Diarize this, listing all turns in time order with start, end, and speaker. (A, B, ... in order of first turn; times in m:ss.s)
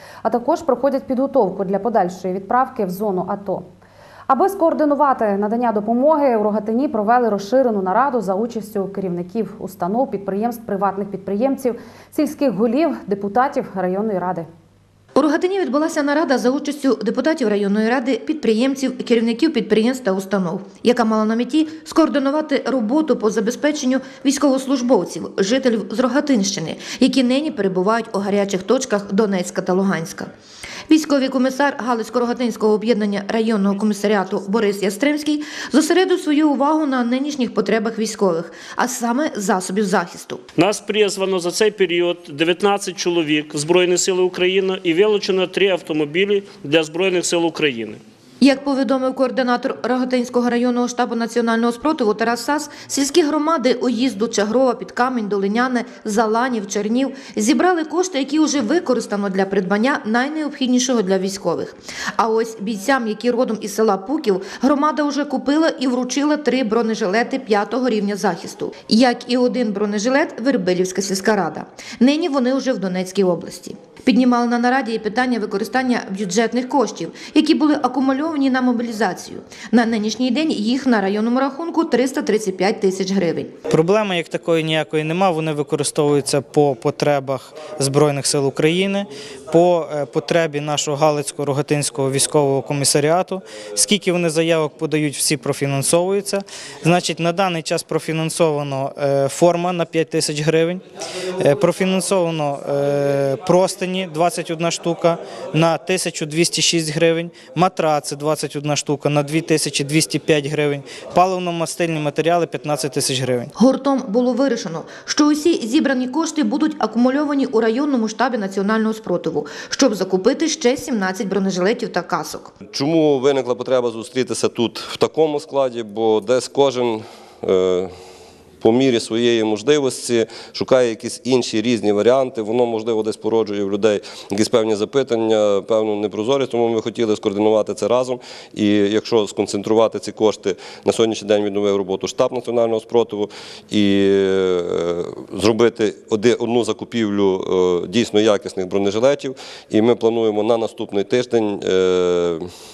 0:00.2-0:03.6 A
0:04.3-0:14.5 A
0:15.2-0:30.3 B
0:30.9-0:40.4 B
0:40.6-0:48.0 C
0:48.4-1:23.5 B
1:23.7-1:40.8 D
1:41.4-1:53.5 D
1:53.6-2:02.5 B
2:02.7-2:07.9 E
2:08.6-2:32.5 E